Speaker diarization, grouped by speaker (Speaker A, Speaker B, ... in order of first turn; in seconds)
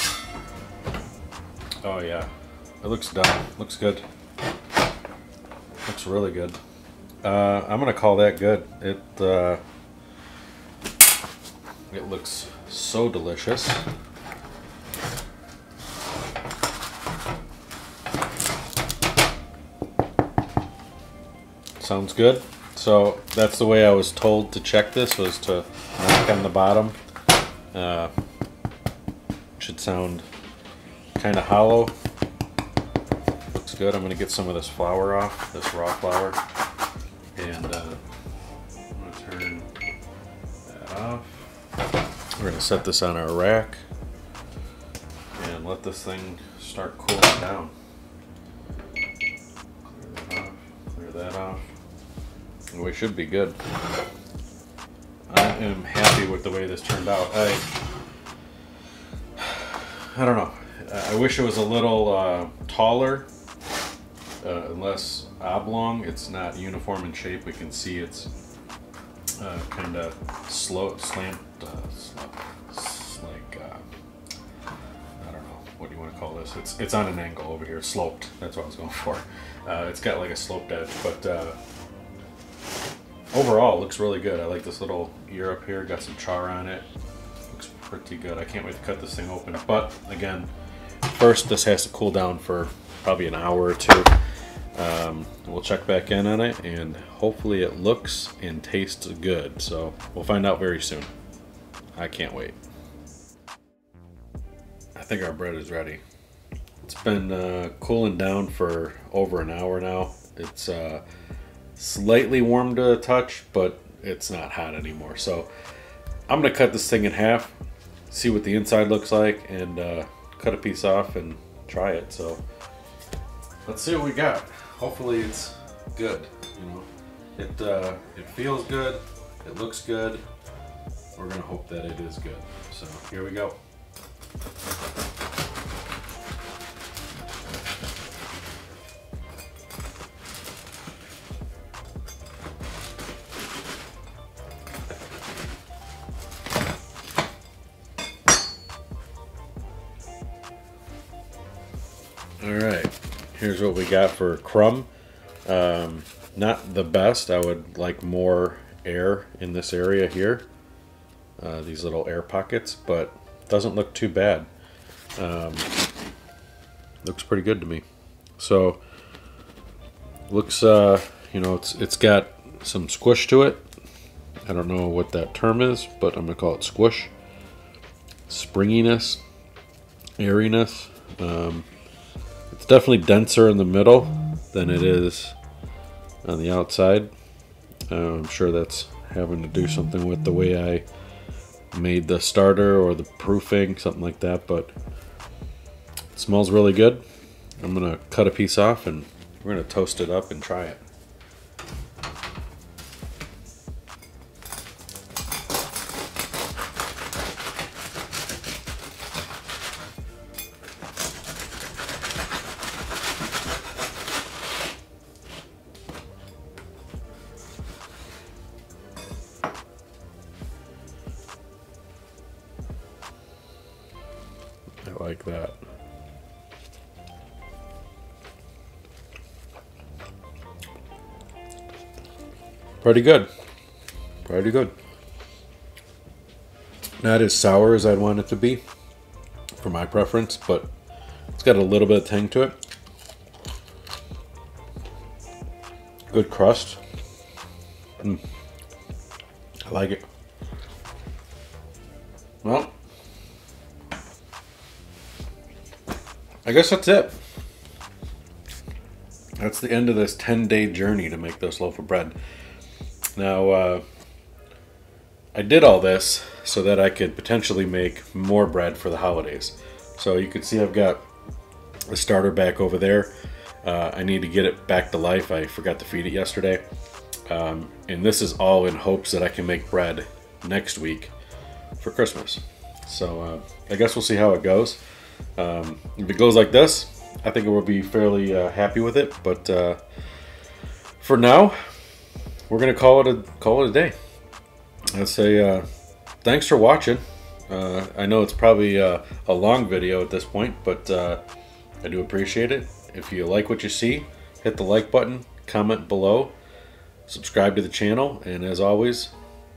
Speaker A: 1.8-2.3, 2.8-4.0, 5.9-6.6, 7.2-9.6, 11.9-13.8, 21.8-27.0, 27.7-28.1, 29.6-30.3, 31.2-31.9, 33.5-36.4, 37.4-38.0, 39.0-39.7, 40.7-41.5, 42.4-43.8, 45.4-47.7, 49.8-51.7, 52.7-53.6, 55.3-57.7, 59.4-63.3, 64.4-68.3, 69.4-73.8, 75.2-81.6, 83.3-86.9, 87.5-90.5, 91.1-94.1, 94.8-101.1, 102.0-102.6, 105.0-106.0, 106.8-111.0, 111.8-115.5, 116.3-117.5, 118.1-122.4, 123.7-130.2, 131.2-133.6, 152.4-154.9, 155.5-160.5, 161.4-164.5, 165.2-165.7, 167.0-167.8, 168.4-168.8, 170.3-173.7, 174.4-177.1, 178.3-179.2, 180.2-181.7, 182.5-185.4, 186.2-187.1, 187.9-190.8, 191.7-194.7, 196.2-197.0, 197.6-200.8, 224.8-225.6, 232.8-233.3, 234.3-234.7, 237.0-238.6, 239.6-240.7, 241.3-242.6, 246.1-246.8, 249.7-250.0, 252.4-252.7, 256.4-257.2, 259.4-262.2, 263.2-263.8, 265.4-271.1, 271.9-273.1, 273.6-276.6, 277.3-281.1, 281.8-284.8, 285.4-289.8, 291.0-291.6, 292.5-293.9, 294.9-295.6, 296.2-301.2, 301.8-306.3, 307.1-309.1